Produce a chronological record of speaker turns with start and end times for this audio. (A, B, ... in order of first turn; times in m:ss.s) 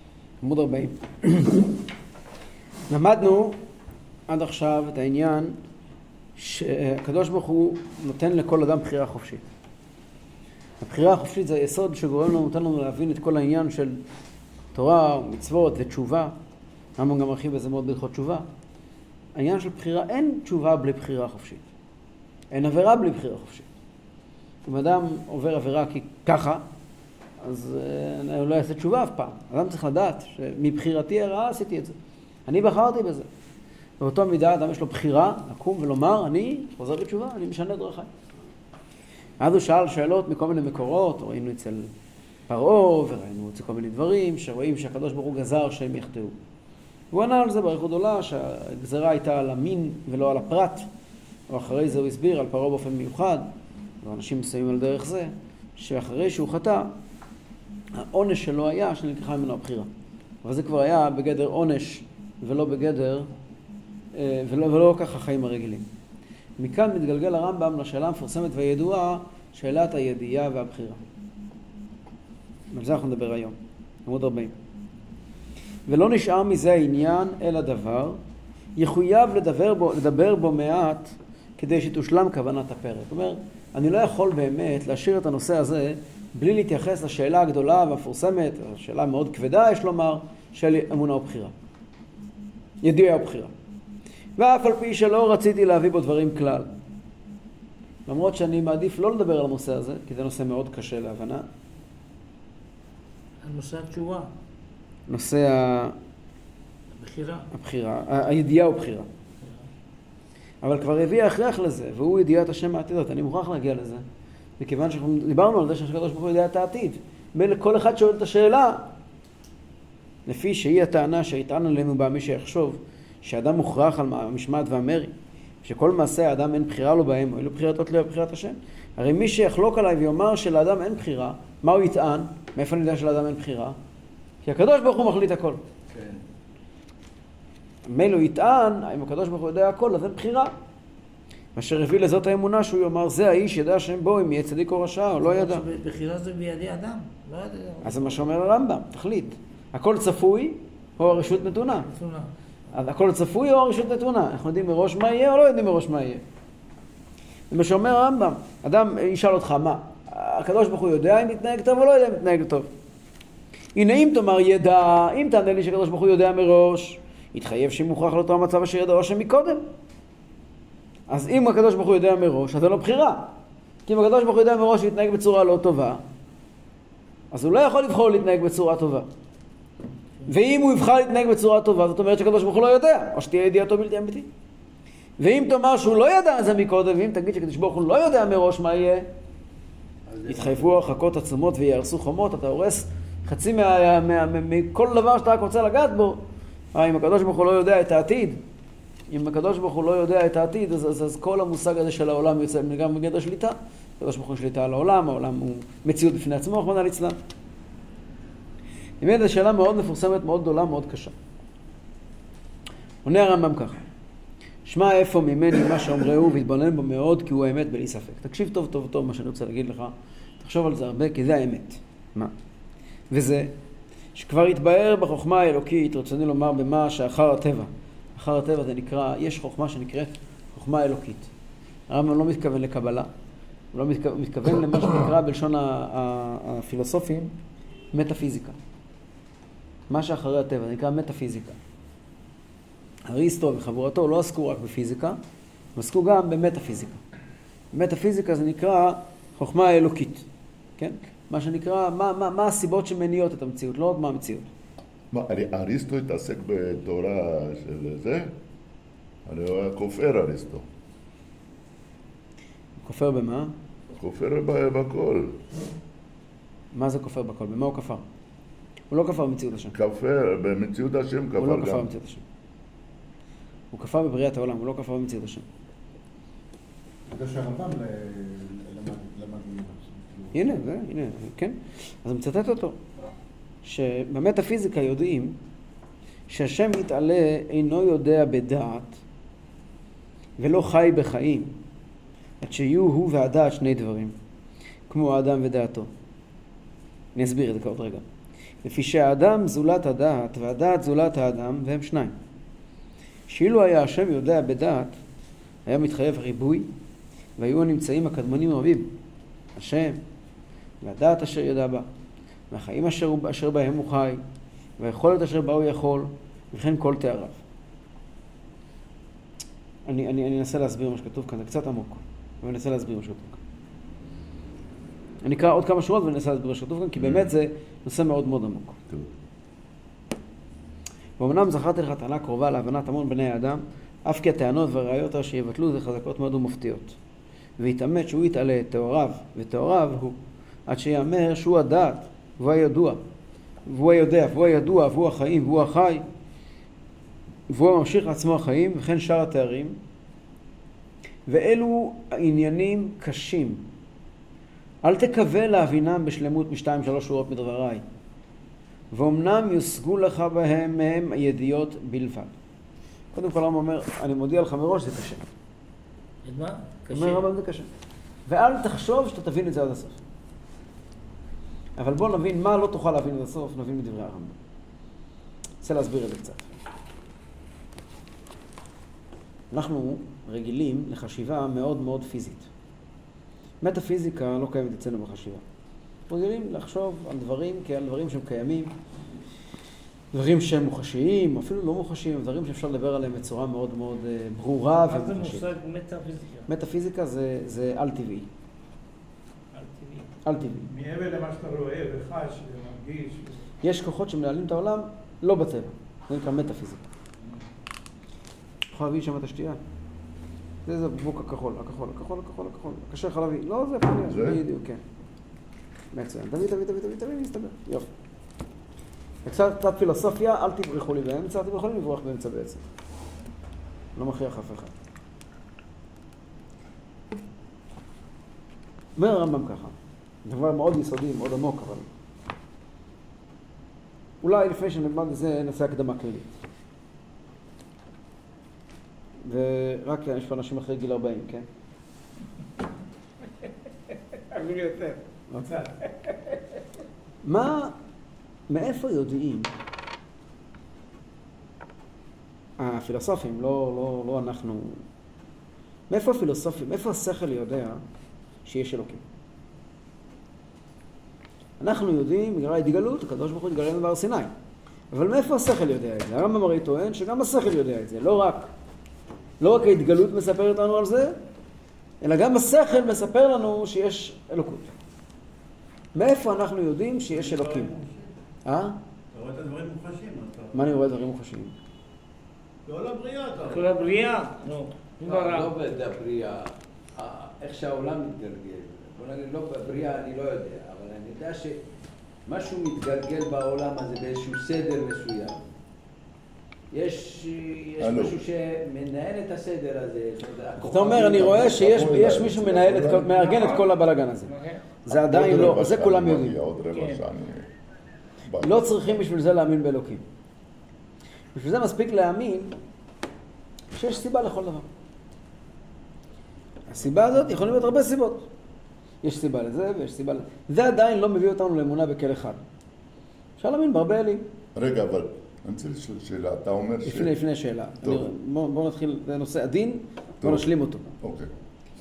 0:00.4-0:01.6 A
0:02.9-0:03.6 A
0:04.3-0:05.6 A
0:06.4-0:09.4 A
0:10.8-0:14.0 A
0:14.7-0:16.3 A
0:17.0-0:18.4 A
0:19.3-0:21.6 A
0:22.5-0:23.7 A
0:24.6-0:26.6 A
0:27.4-0:31.9 A
0:32.5-0:33.3 A
0:34.0-0:38.1 A
0:39.4-0:41.9 A
0:42.5-0:46.3 A
0:47.1-0:50.9 A
0:51.5-0:56.9 A
0:57.9-0:59.9 A
1:00.4-1:03.3 A
1:04.1-1:05.9 A
1:06.6-1:11.0 A
1:12.7-1:14.5 A
1:15.9-1:18.2 A
1:18.8-1:31.5 A
1:32.8-1:33.5 A
1:34.4-1:36.7 A
1:38.1-1:41.5 A
1:43.4-1:44.3 B
1:45.1-1:46.0 A
1:47.0-1:47.5 B
1:47.5-1:49.1 A
1:50.6-1:54.0 A
1:54.6-1:58.9 A
2:00.2-2:13.8 A
2:14.4-2:15.6 A
2:15.9-2:16.2 C
2:17.9-2:20.5 A
2:21.5-2:25.6 A
2:25.2-2:28.2 B
2:27.8-2:31.9 A
2:31.3-2:32.3 B
2:32.7-2:36.2 A
2:37.5-2:42.7 A
2:43.7-2:49.6 A
2:51.1-2:53.3 A
2:53.8-2:56.0 A
2:57.3-2:59.1 A
3:00.2-3:04.3 A
3:05.2-3:09.1 A
3:10.1-3:10.8 C
3:10.3-3:18.4 A
3:19.1-3:27.2 A
3:29.0-3:31.1 A
3:33.0-3:33.8 A
3:34.6-3:42.3 A
3:43.1-3:43.5 A
3:44.1-3:51.3 A
3:51.9-3:53.1 A
3:53.7-3:57.3 A
3:57.9-3:58.6 A
3:59.9-4:01.6 A
4:03.0-4:05.2 A
4:05.8-4:07.0 A
4:07.7-4:10.2 A
4:10.8-4:14.5 A
4:15.1-4:18.3 D
4:19.2-4:20.6 D
4:22.8-4:23.5 A
4:23.9-4:25.4 D
4:26.7-4:28.0 A
4:28.9-4:29.7 A
4:29.7-4:31.9 D
4:31.4-4:32.2 A
4:33.7-4:35.4 A
4:37.1-4:40.6 E
4:40.3-4:42.8 A
4:43.6-4:45.4 A
4:46.3-4:49.0 A
4:50.4-4:51.5 A
4:52.4-4:54.1 A
4:54.9-4:55.9 A
4:57.1-4:58.0 A
4:58.6-5:02.2 A
5:03.3-5:04.9 A
5:05.6-5:06.7 A
5:07.4-5:08.9 A
5:09.6-5:10.0 A
5:10.8-5:11.8 A
5:12.5-5:14.2 A
5:14.8-5:17.4 A
5:19.8-5:23.4 A
5:25.2-5:28.8 A
5:27.0-5:27.3 D
5:31.2-5:37.0 A
5:37.6-5:43.0 A
5:43.6-5:46.0 A
5:47.5-5:49.8 A
5:51.3-5:53.6 A
5:54.8-5:57.8 A
5:58.9-6:02.3 A
6:03.1-6:05.2 A
6:06.2-6:07.2 B
6:06.9-6:07.7 A
6:08.3-6:10.0 A
6:11.8-6:14.4 A
6:15.6-6:16.5 A
6:19.5-6:22.5 A
6:23.6-6:25.4 A
6:26.1-6:28.7 A
6:30.1-6:35.5 A
6:34.8-6:36.5 B
6:36.5-6:38.3 A
6:39.5-6:40.0 B
6:40.2-6:40.7 A
6:40.6-6:43.4 F
6:43.6-6:46.9 A
6:48.7-6:49.6 A
6:50.6-6:54.8 A
6:54.0-6:54.4 D
6:55.9-6:57.9 A
6:59.2-7:02.6 A
7:04.0-7:04.7 A
7:09.0-7:09.7 A
7:10.2-7:11.9 A
7:14.2-7:16.4 A
7:19.2-7:21.4 A
7:24.3-7:25.0 B
7:25.3-7:25.7 A
7:27.2-7:27.7 A
7:28.5-7:29.5 A
7:32.6-7:34.8 A
7:35.9-7:37.8 A
7:38.4-7:39.0 A
7:41.6-7:44.3 A
7:44.9-7:48.5 A
7:49.4-7:51.2 A
7:52.0-7:54.7 A
7:55.9-7:57.7 A
7:57.1-7:58.1 G
7:58.4-7:58.8 A
7:59.1-8:00.7 G
8:00.5-8:01.5 A
8:02.6-8:03.7 G
8:03.5-8:05.5 B
8:05.0-8:11.6 C
8:12.2-8:15.4 C
8:16.7-8:22.2 C
8:17.8-8:18.2 D
8:20.6-8:24.3 A
8:21.1-8:23.6 D
8:24.3-8:24.6 B
8:24.8-8:26.4 A
8:24.9-8:27.5 D
8:26.7-8:27.0 B
8:28.3-8:29.0 D
8:28.4-8:30.0 A
8:31.3-8:32.5 A
8:33.7-8:34.6 A
8:36.7-8:38.3 A
8:39.0-8:42.4 A
8:43.4-8:44.3 A
8:44.5-8:47.2 D
8:46.8-8:50.9 A
8:47.8-8:48.1 D
8:50.2-8:50.5 D
8:51.0-8:51.3 D